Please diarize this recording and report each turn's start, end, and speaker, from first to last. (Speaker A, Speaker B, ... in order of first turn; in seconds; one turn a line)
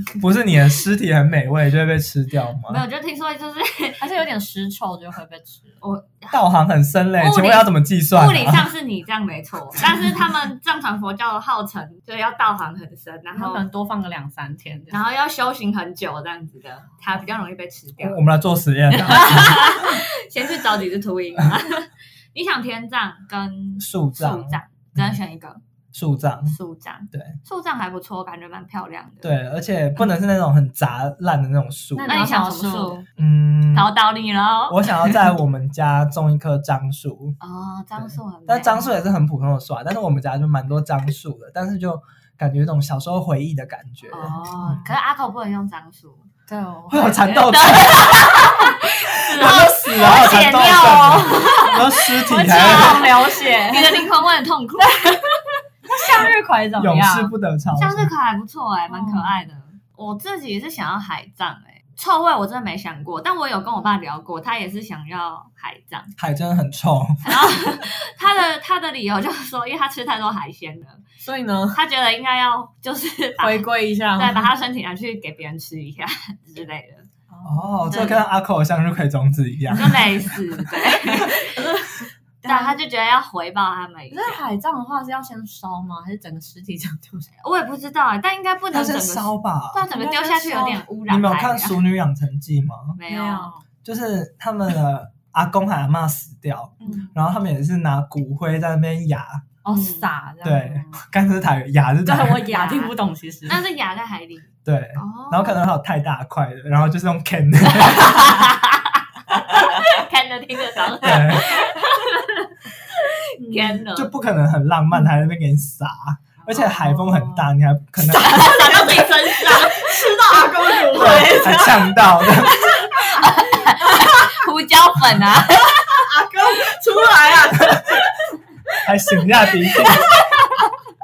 Speaker A: 0.2-2.8
Speaker B: 2.7-4.0
Speaker C: 4.0-5.8
Speaker B: 5.8-6.4
Speaker A: 6.3-8.7
Speaker B: 7.2-13.6
Speaker C: 13.3-15.0
Speaker B: 14.9-18.2
Speaker A: 18.0-20.0
Speaker B: 19.0-25.6
Speaker A: 23.8-25.2
Speaker A: 25.9-26.6
Speaker B: 26.5-29.3
Speaker A: 29.2-32.2
Speaker C: 31.9-33.0
Speaker B: 32.0-33.1
Speaker A: 33.2-33.9
Speaker B: 33.7-35.3
Speaker A: 34.7-37.4
Speaker B: 37.4-38.9
Speaker A: 38.0-44.9
Speaker B: 44.1-46.3
Speaker C: 46.5-47.5
Speaker A: 46.9-48.7
Speaker B: 47.2-55.6
Speaker A: 49.2-53.1
Speaker C: 50.8-54.1
Speaker C: 55.9-57.3
Speaker A: 56.8-58.1
Speaker B: 57.7-66.1
Speaker C: 58.9-59.4
Speaker A: 66.2-67.6
Speaker B: 67.2-71.0
Speaker C: 71.2-71.8
Speaker B: 71.7-77.1
Speaker C: 73.4-74.5
Speaker C: 77.3-78.2
Speaker A: 77.4-80.6
Speaker B: 79.7-81.7
Speaker C: 81.0-82.8
Speaker B: 82.4-84.4
Speaker C: 84.1-87.3
Speaker B: 87.4-91.8
Speaker A: 88.7-89.8
Speaker C: 89.9-90.8
Speaker A: 91.1-93.0
Speaker B: 93.0-93.5
Speaker C: 93.1-93.6
Speaker A: 93.8-99.5
Speaker C: 96.8-97.1
Speaker B: 96.8-97.1
Speaker C: 99.6-101.0
Speaker B: 99.7-100.1
Speaker A: 100.4-102.5
Speaker C: 102.0-103.6
Speaker B: 102.5-102.9
Speaker B: 103.5-105.6
Speaker A: 104.6-108.4
Speaker B: 108.1-114.1
Speaker C: 109.5-109.9
Speaker A: 111.0-111.6
Speaker C: 113.4-113.8
Speaker A: 113.9-118.4
Speaker C: 116.5-117.4
Speaker C: 118.0-124.3
Speaker B: 118.1-121.0
Speaker A: 120.9-122.6
Speaker B: 122.7-126.1
Speaker C: 125.8-128.1
Speaker A: 128.8-130.1
Speaker C: 129.7-130.4